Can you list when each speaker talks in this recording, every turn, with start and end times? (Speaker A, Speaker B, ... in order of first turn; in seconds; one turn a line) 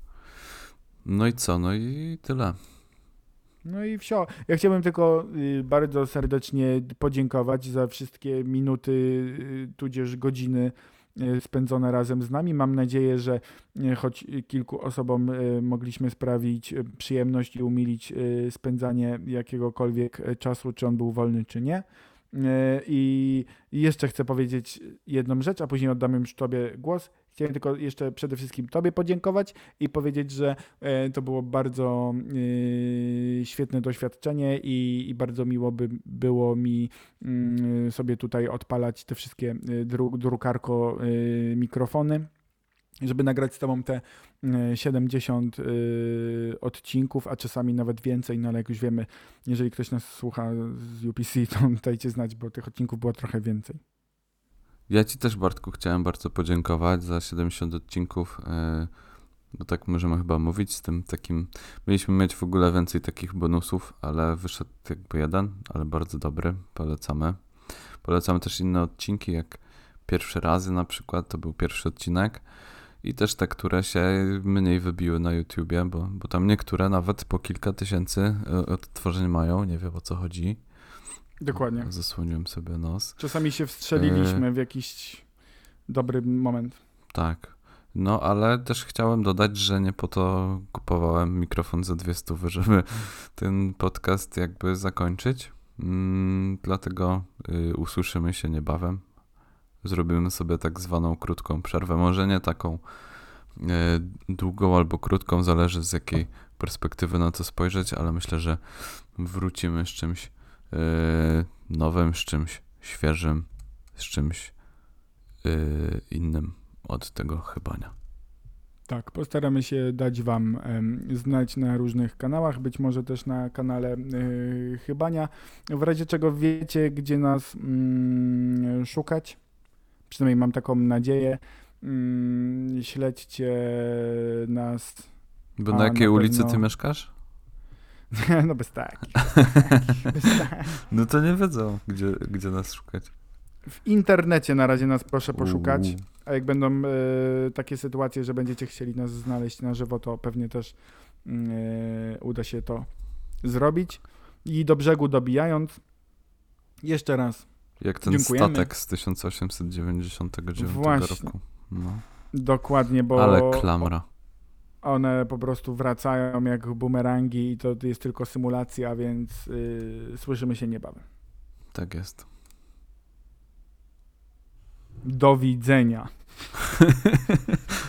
Speaker A: 1.0-2.6
Speaker B: 3.6-42.3
Speaker B: 43.0-53.8
Speaker A: 54.9-58.9
Speaker A: 59.5-72.5
Speaker A: 73.0-80.6
Speaker B: 81.4-81.9
Speaker A: 81.5-83.2
Speaker B: 83.2-85.2
Speaker A: 84.0-84.5
Speaker B: 85.9-86.8
Speaker A: 87.1-99.1
Speaker A: 99.8-114.5
Speaker A: 115.4-117.9
Speaker B: 118.9-129.4
Speaker B: 130.1-135.1
Speaker A: 135.6-137.1
Speaker B: 135.7-136.6
Speaker B: 138.1-140.8
Speaker A: 139.4-139.8
Speaker A: 140.9-143.1
Speaker B: 143.8-150.7
Speaker A: 145.3-146.1
Speaker B: 151.2-152.9
Speaker B: 153.4-155.8
Speaker B: 156.8-157.5
Speaker A: 157.8-162.0
Speaker B: 158.0-158.7
Speaker B: 160.6-161.3
Speaker B: 162.3-163.9
Speaker A: 163.1-164.0
Speaker B: 164.8-171.0
Speaker A: 171.7-172.2
Speaker B: 175.0-176.1
Speaker A: 176.8-177.2